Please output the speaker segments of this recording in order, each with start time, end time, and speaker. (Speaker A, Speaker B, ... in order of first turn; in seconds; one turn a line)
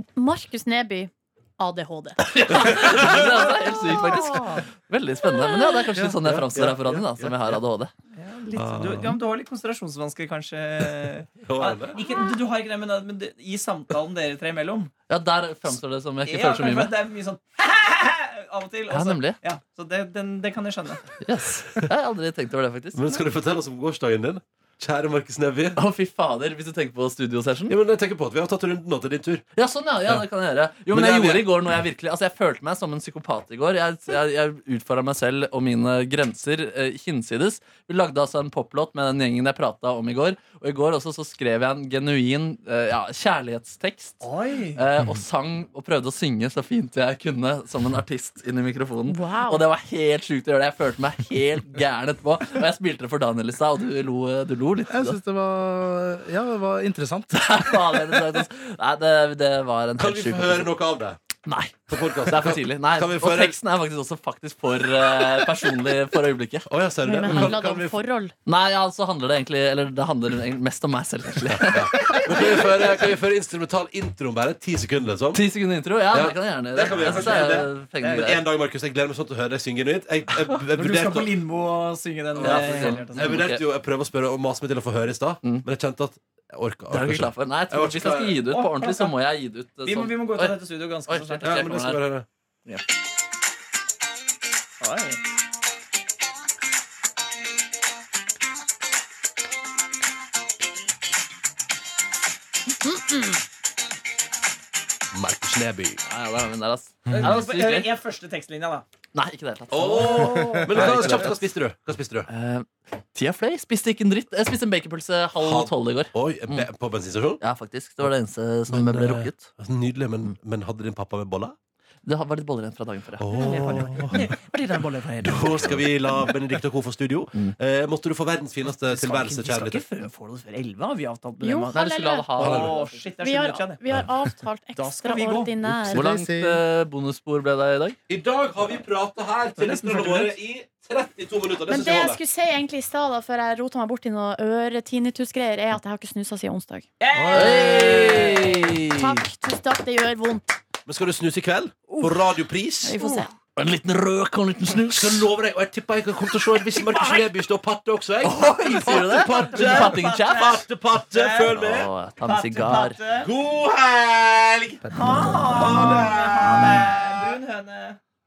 Speaker A: 0.1-2.2
Speaker B: 2.2-7.9
Speaker C: 2.5-3.5
Speaker A: 4.0-4.5
Speaker D: 4.2-4.7
Speaker A: 5.4-5.8
Speaker C: 6.0-7.5
Speaker D: 8.1-14.9
Speaker C: 8.5-9.2
Speaker C: 11.4-12.0
Speaker B: 15.1-16.9
Speaker D: 16.3-21.1
Speaker B: 18.9-19.4
Speaker B: 21.2-23.0
Speaker C: 22.9-25.8
Speaker B: 25.8-27.7
Speaker C: 27.7-29.4
Speaker B: 29.6-55.2
Speaker C: 30.9-31.6
Speaker D: 44.2-44.8
Speaker A: 49.0-49.6
Speaker E: 54.9-57.6
Speaker B: 57.3-60.7
Speaker C: 60.0-61.2
Speaker B: 61.4-66.7
Speaker C: 61.9-63.5
Speaker C: 66.7-68.0
Speaker A: 67.0-68.3
Speaker B: 67.3-67.5
Speaker B: 68.5-72.6
Speaker C: 71.5-75.4
Speaker B: 75.3-78.5
Speaker C: 76.1-81.3
Speaker D: 76.9-77.4
Speaker D: 80.7-83.4
Speaker C: 82.3-88.4
Speaker B: 82.4-83.6
Speaker B: 86.9-92.1
Speaker D: 88.5-89.2
Speaker D: 89.8-91.7
Speaker C: 91.4-92.2
Speaker D: 94.8-95.2
Speaker A: 102.8-103.1
Speaker C: 105.1-106.0
Speaker B: 106.0-107.9
Speaker C: 107.1-107.4
Speaker D: 107.1-108.8
Speaker B: 109.1-111.4
Speaker C: 109.7-112.3
Speaker A: 110.0-110.8
Speaker B: 112.3-116.7
Speaker C: 115.4-117.4
Speaker B: 117.4-119.5
Speaker C: 118.7-121.6
Speaker B: 122.0-123.3
Speaker C: 123.2-124.3
Speaker D: 123.3-125.8
Speaker C: 125.2-129.8
Speaker D: 128.8-131.8
Speaker A: 131.4-132.6
Speaker B: 131.7-133.0
Speaker D: 132.4-133.8
Speaker C: 132.4-132.8
Speaker A: 133.2-136.1
Speaker D: 134.8-135.5
Speaker E: 135.7-136.6
Speaker B: 135.9-138.0
Speaker C: 138.1-142.2
Speaker D: 139.5-140.3
Speaker A: 141.7-146.9
Speaker D: 147.0-148.8
Speaker C: 147.1-147.8
Speaker B: 147.3-149.2
Speaker A: 147.7-150.6
Speaker C: 150.8-153.0
Speaker A: 151.9-152.2
Speaker A: 152.8-153.3
Speaker B: 153.6-155.3
Speaker C: 154.9-161.9
Speaker D: 156.7-157.3
Speaker B: 158.2-160.6
Speaker D: 159.2-161.5
Speaker B: 161.5-163.0
Speaker D: 162.2-163.3
Speaker C: 163.2-164.9
Speaker E: 164.8-165.4
Speaker D: 164.9-168.0
Speaker C: 165.4-167.1
Speaker B: 166.4-166.9